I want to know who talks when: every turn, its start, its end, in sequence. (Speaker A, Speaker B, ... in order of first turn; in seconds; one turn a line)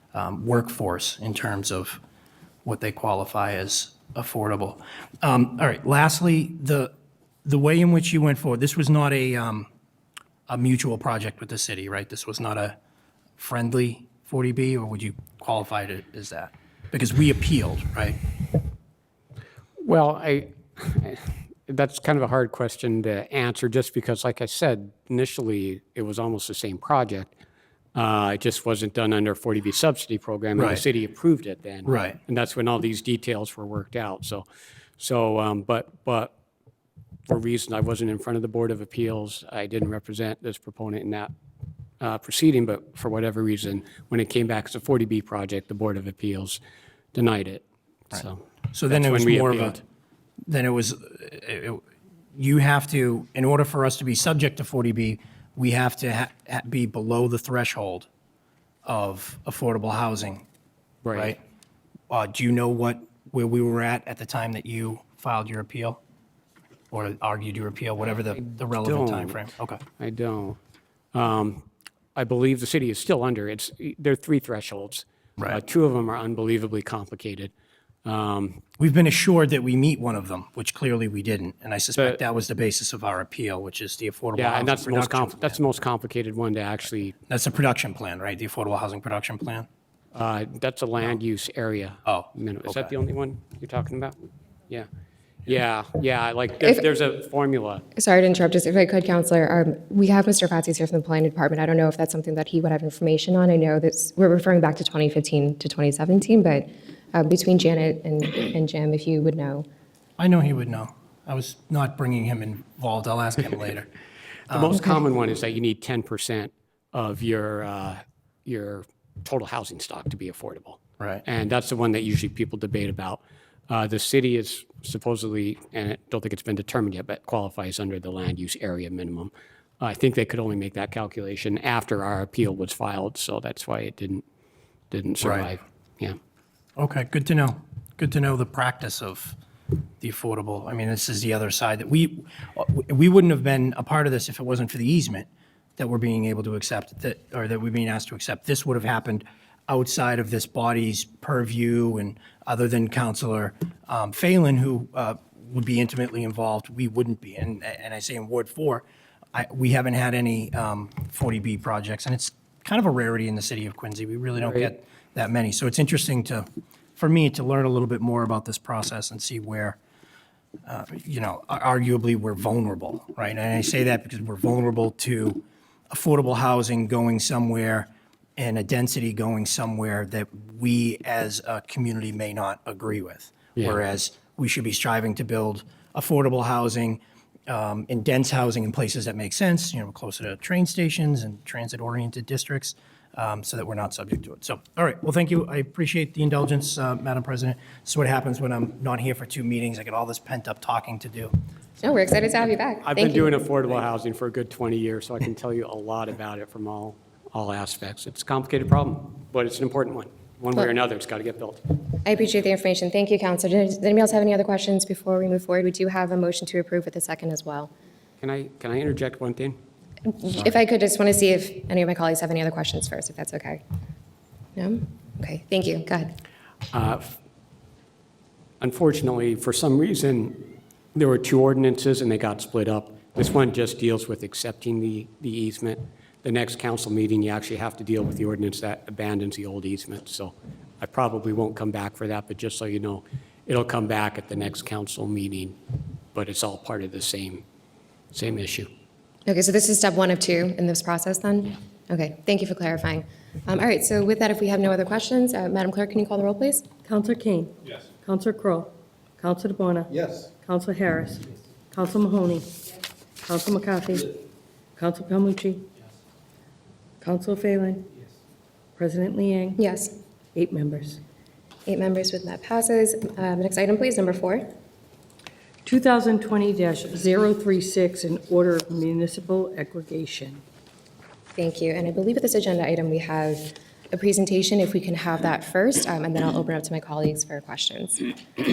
Speaker A: 0.1-2.0
Speaker A: 2.6-6.9
Speaker A: 7.4-9.7
Speaker A: 10.5-12.8
Speaker A: 13.4-18.2
Speaker B: 19.8-27.3
Speaker B: 27.9-34.4
Speaker A: 30.5-30.8
Speaker A: 31.8-32.2
Speaker B: 35.0-36.3
Speaker B: 37.3-41.3
Speaker B: 42.0-46.6
Speaker B: 47.1-49.8
Speaker A: 48.1-49.8
Speaker A: 50.5-51.8
Speaker A: 52.4-58.1
Speaker A: 58.9-60.4
Speaker B: 61.0-61.4
Speaker A: 61.1-61.4
Speaker A: 62.1-66.0
Speaker A: 66.9-69.8
Speaker B: 68.4-69.4
Speaker B: 70.0-70.6
Speaker B: 71.1-71.6
Speaker B: 72.1-77.5
Speaker B: 78.0-78.6
Speaker A: 78.8-85.6
Speaker B: 84.3-87.2
Speaker A: 87.3-89.7
Speaker B: 90.1-94.2
Speaker A: 92.0-92.9
Speaker B: 95.5-97.8
Speaker C: 98.0-109.6
Speaker A: 110.2-113.9
Speaker A: 114.5-114.8
Speaker B: 114.5-134.2
Speaker B: 134.9-136.2
Speaker A: 135.2-135.5
Speaker A: 136.8-139.4
Speaker A: 140.0-145.3
Speaker A: 145.8-158.8
Speaker A: 159.3-169.8
Speaker B: 164.4-164.7
Speaker A: 170.7-201.3
Speaker C: 201.8-203.4
Speaker B: 202.8-211.8
Speaker C: 212.0-217.7
Speaker B: 218.2-219.6
Speaker C: 220.0-223.6
Speaker C: 224.6-226.2
Speaker B: 226.7-227.2
Speaker B: 228.6-245.6
Speaker B: 246.1-247.4
Speaker B: 248.1-248.7
Speaker C: 249.2-256.6
Speaker D: 256.8-262.7
Speaker D: 263.2-265.7
Speaker D: 267.0-267.9
Speaker D: 268.8-269.6
Speaker C: 269.6-269.9
Speaker D: 270.3-271.0
Speaker C: 271.6-274.5
Speaker D: 275.6-280.4
Speaker C: 281.3-288.1